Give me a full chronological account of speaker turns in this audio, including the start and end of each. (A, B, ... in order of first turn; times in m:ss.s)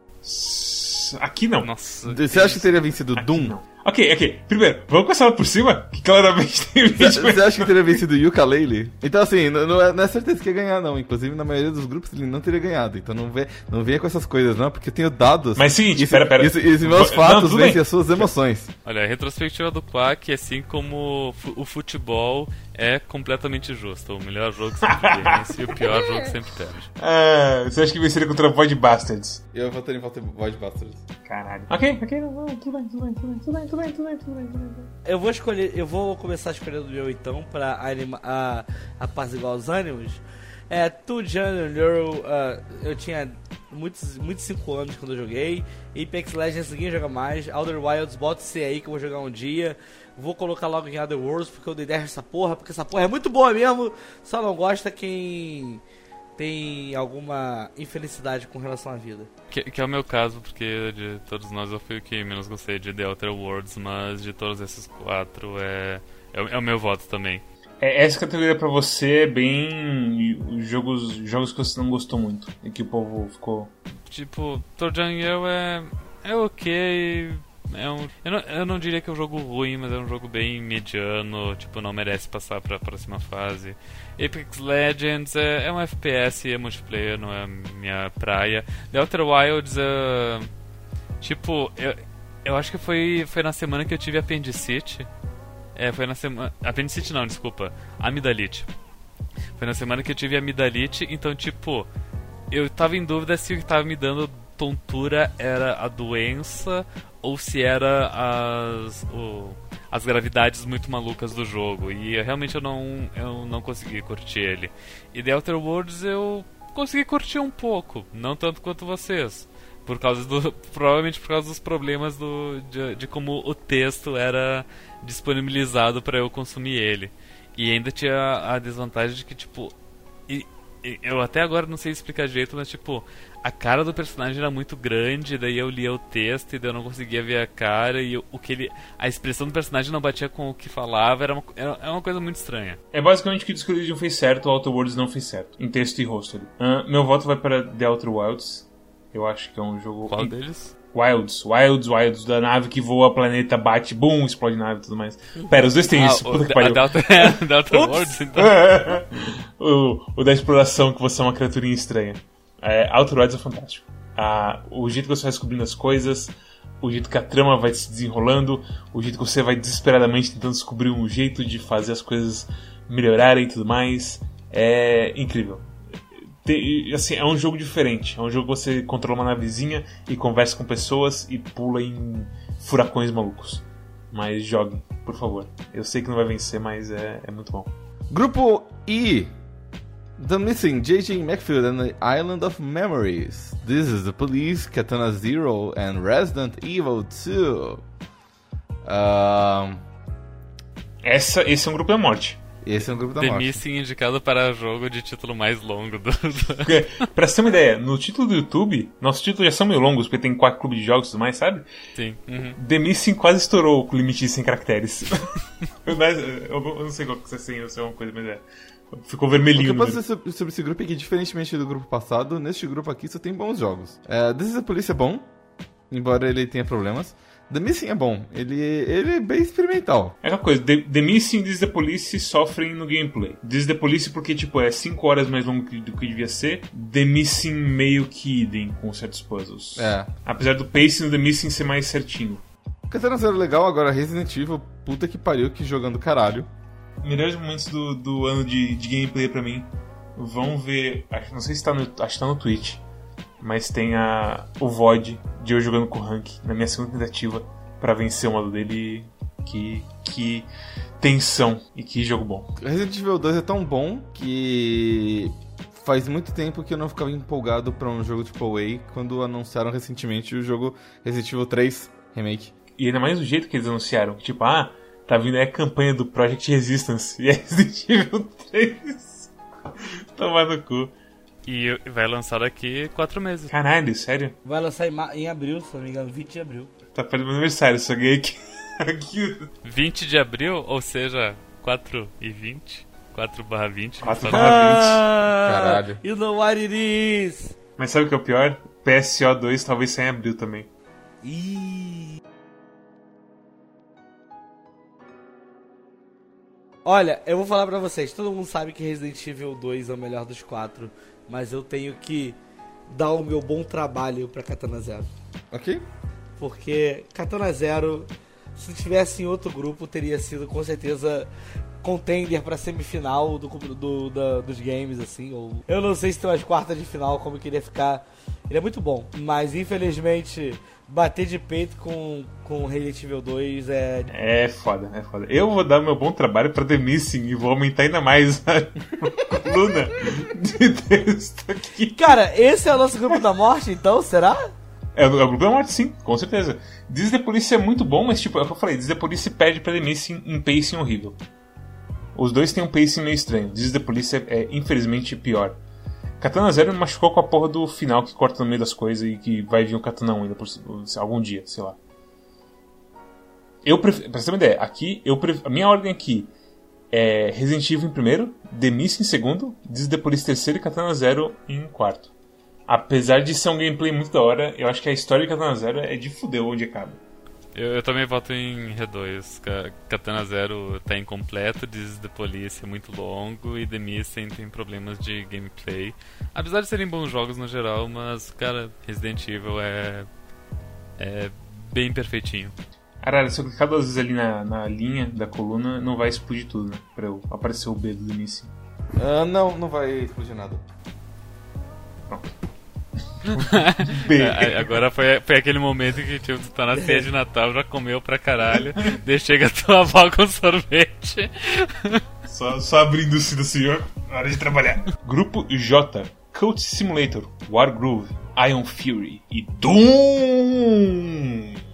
0:00.2-0:01.7 A
0:01.6-0:02.6 B
0:02.0-0:03.5 C
0:03.1-0:07.8 A
0:07.0-0:18.7 C
0:15.6-0:18.3 A
0:18.8-0:26.9 B
0:24.9-0:26.0 A
0:27.0-0:29.4 A
0:29.5-0:31.0 C
0:31.2-0:34.9 A
0:35.0-0:55.8 D
0:56.4-0:59.3 D
0:59.5-1:07.4 B
1:07.8-1:13.7 A
1:14.1-1:30.5 B
1:31.2-1:35.1 B
1:35.8-1:38.7 B
1:39.6-1:41.9 B
1:42.5-2:09.7 B
2:10.3-2:22.8 B
2:22.9-2:30.3 A
2:30.1-2:30.7 B
2:30.9-2:37.3 A
2:35.9-2:38.6 B
2:38.3-2:55.7 A
2:56.4-3:07.7 A
3:08.1-3:09.3 C
3:10.2-3:17.8 C
3:18.8-3:19.8 C
3:21.0-3:22.4 A
3:22.6-3:23.6 C
3:23.1-3:26.8 B
3:26.6-3:31.6 A
3:32.0-3:32.6 B
3:32.6-3:40.0 A
3:39.5-3:45.2 C
3:45.9-3:50.1 C
3:50.2-4:02.4 A
3:59.8-4:00.1 C
4:02.9-4:06.5 C
4:07.0-4:12.8 A
4:13.4-4:20.5 A
4:21.0-4:22.5 A
4:22.6-4:32.5 C
4:32.8-4:40.9 A
4:41.4-4:43.5 B
4:43.5-4:44.4 A
4:44.4-4:46.7 D
4:46.9-4:49.5 A
4:49.6-4:54.6 B
4:54.0-4:55.0 A
4:54.3-4:57.5 D
4:55.3-4:56.0 C
4:57.8-5:00.7 A
5:01.2-5:02.2 D
5:06.8-5:12.4 D
5:12.9-5:15.1 D
5:15.5-5:15.8 C
5:16.4-5:21.3 D
5:21.8-5:34.1 D
5:34.1-5:42.0 A
5:41.9-5:44.5 D
5:44.9-5:51.2 A
5:52.1-5:55.6 A
5:56.2-6:01.8 A
6:03.6-6:06.3 A
6:06.9-6:12.1 A
6:12.7-6:17.0 A
6:17.5-6:30.1 B
6:31.0-6:32.5 B
6:33.0-6:38.5 A
6:39.0-6:40.6 C
6:43.1-6:44.7 A
6:43.4-6:52.0 B
6:46.8-6:47.0 D
6:52.2-7:01.5 A